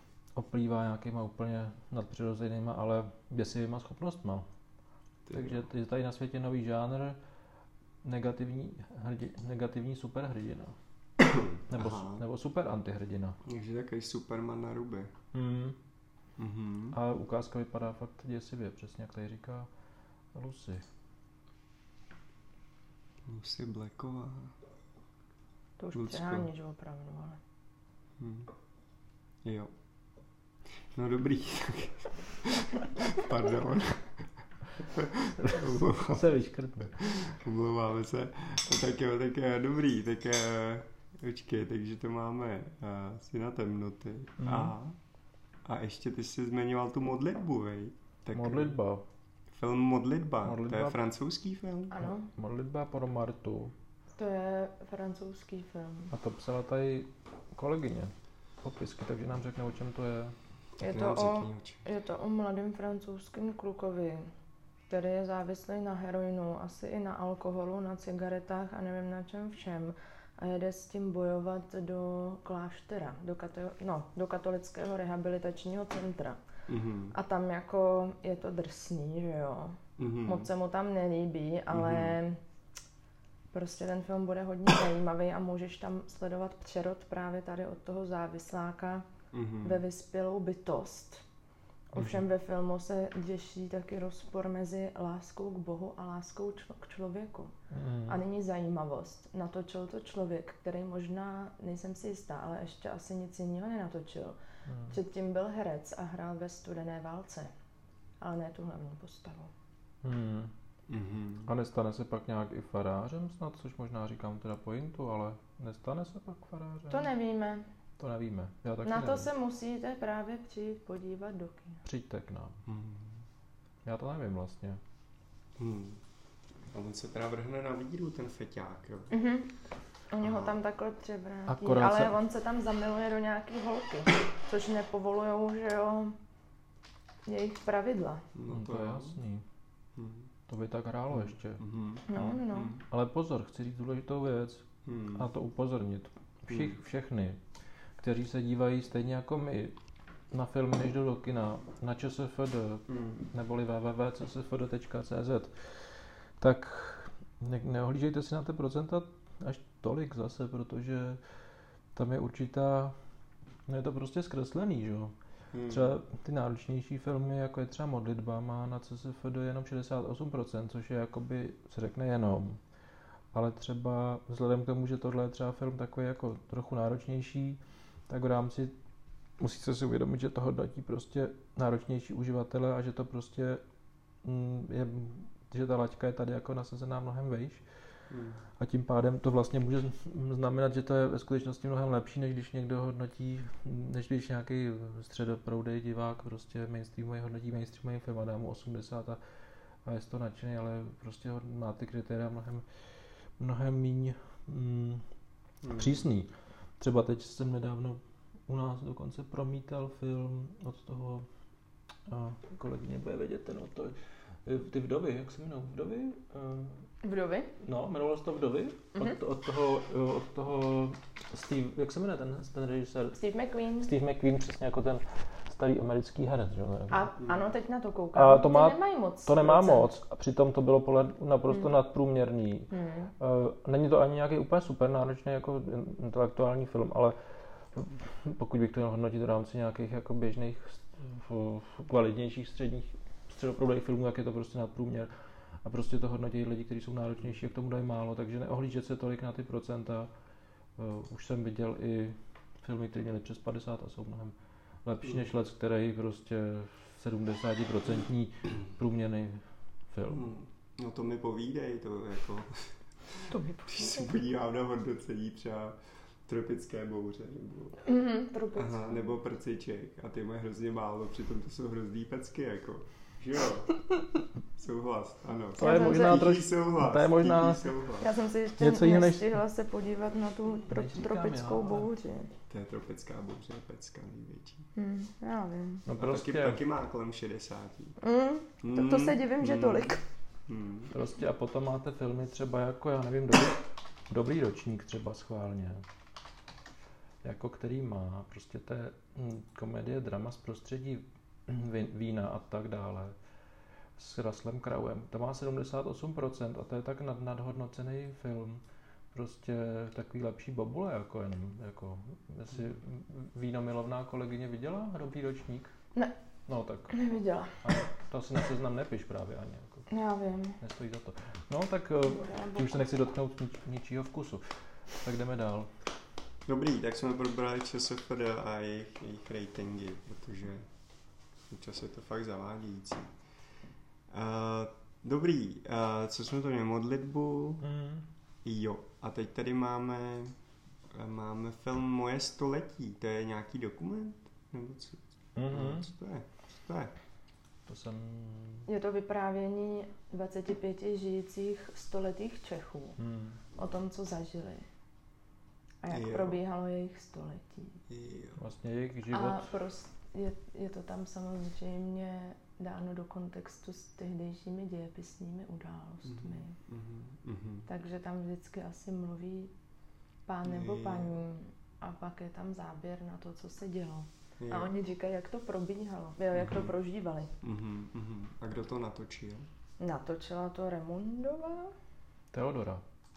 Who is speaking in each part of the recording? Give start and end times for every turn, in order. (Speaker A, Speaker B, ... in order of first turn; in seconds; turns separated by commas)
Speaker A: 0.3-4.5, Speaker B: 5.2-5.6, Speaker A: 5.3-7.2, Speaker A: 8.0-10.8, Speaker B: 11.2-12.2, Speaker A: 11.7-13.4, Speaker B: 13.4-15.1, Speaker A: 15.3-15.8, Speaker B: 16.4-17.0, Speaker A: 16.9-19.7, Speaker A: 20.3-20.8, Speaker B: 23.2-24.5, Speaker C: 25.8-27.4, Speaker B: 25.9-26.5, Speaker B: 28.2-28.5, Speaker B: 29.4-29.7, Speaker B: 30.9-36.3, Speaker A: 35.4-37.3, Speaker B: 36.9-45.0, Speaker A: 44.4-44.7, Speaker B: 45.6-48.8, Speaker A: 48.3-49.0, Speaker B: 49.5-52.0, Speaker A: 50.4-51.0, Speaker C: 51.9-52.3, Speaker A: 52.0-53.7, Speaker C: 54.2-56.1, Speaker A: 56.1-60.3, Speaker C: 60.8-64.3, Speaker B: 60.8-61.8, Speaker C: 64.9-76.4, Speaker B: 76.7-77.2, Speaker C: 77.1-82.4, Speaker B: 80.0-80.5, Speaker B: 81.7-82.1, Speaker C: 83.5-89.0, Speaker B: 89.3-89.8, Speaker C: 89.6-91.2, Speaker C: 91.9-97.5, Speaker A: 91.9-92.2, Speaker A: 97.7-98.2, Speaker C: 98.1-104.4, Speaker A: 104.7-105.0, Speaker C: 104.9-107.5, Speaker C: 108.2-109.5, Speaker A: 110.0-110.5, Speaker B: 110.9-111.5, Speaker A: 111.5-117.1, Speaker C: 116.9-117.7, Speaker A: 118.0-119.3, Speaker C: 118.8-121.8, Speaker A: 121.8-122.6, Speaker B: 122.7-123.2, Speaker A: 123.8-124.8, Speaker B: 125.6-126.0, Speaker B: 126.7-129.2, Speaker C: 129.1-129.5, Speaker C: 130.1-136.2, Speaker B: 130.2-130.6, Speaker A: 131.5-132.1, Speaker C: 137.2-138.2, Speaker B: 138.3-139.2, Speaker A: 138.5-139.4, Speaker B: 139.9-140.3, Speaker A: 140.5-147.4, Speaker B: 141.1-142.8, Speaker C: 142.1-142.7, Speaker B: 144.8-145.3, Speaker B: 146.5-146.8, Speaker A: 148.0-149.8, Speaker A: 150.3-161.2, Speaker B: 152.9-153.2, Speaker A: 161.9-162.9, Speaker A: 163.7-165.1, Speaker B: 165.5-165.9, Speaker A: 165.7-172.6, Speaker A: 173.3-178.7, Speaker A: 179.4-183.6, Speaker A: 184.2-187.6, Speaker B: 188.1-188.4, Speaker A: 188.6-199.2, Speaker A: 199.8-202.6, Speaker A: 203.4-205.0, Speaker B: 205.6-206.0, Speaker A: 205.7-211.2, Speaker A: 212.1-216.8, Speaker C: 217.0-217.5, Speaker A: 217.6-223.2, Speaker C: 223.2-223.9, Speaker A: 223.8-227.1, Speaker C: 226.9-229.9, Speaker A: 228.1-237.2, Speaker C: 232.7-233.1, Speaker A: 237.7-245.1, Speaker A: 245.6-250.1, Speaker A: 250.8-260.2, Speaker B: 260.1-267.8, Speaker C: 263.3-264.1, Speaker C: 267.8-269.1, Speaker B: 268.5-273.8, Speaker B: 274.5-278.1, Speaker C: 275.6-276.3, Speaker A: 275.6-277.8, Speaker C: 278.0-282.3, Speaker A: 278.6-279.4, Speaker A: 280.7-281.9, Speaker B: 282.5-284.7, Speaker C: 284.8-285.8, Speaker A: 285.9-286.6, Speaker B: 286.0-288.0, Speaker C: 288.0-290.0, Speaker B: 288.6-289.9, Speaker B: 290.5-290.9, Speaker A: 290.9-295.8, Speaker A: 297.2-303.1, Speaker A: 304.0-315.7, Speaker A: 316.5-316.9, Speaker C: 316.9-317.6, Speaker A: 317.6-319.9, Speaker C: 319.9-320.6, Speaker A: 320.6-324.4, Speaker C: 322.1-323.0, Speaker A: 325.0-325.7, Speaker B: 326.4-330.7, Speaker B: 331.5-333.1, Speaker B: 334.1-337.7, Speaker A: 337.6-338.1, Speaker B: 338.4-340.3, Speaker B: 340.9-346.9, Speaker A: 345.4-345.9, Speaker A: 347.6-348.7, Speaker C: 348.7-353.0, Speaker A: 353.0-353.4, Speaker C: 353.6-354.6, Speaker C: 355.8-357.8, Speaker B: 355.9-356.4, Speaker B: 357.9-358.4, Speaker A: 358.4-359.5, Speaker C: 359.1-366.5, Speaker B: 366.0-367.7, Speaker C: 367.7-369.5, Speaker C: 370.3-377.3, Speaker B: 370.4-371.2, Speaker B: 374.4-374.7, Speaker B: 376.3-376.7, Speaker B: 377.4-379.5, Speaker C: 379.8-381.7, Speaker A: 382.3-382.8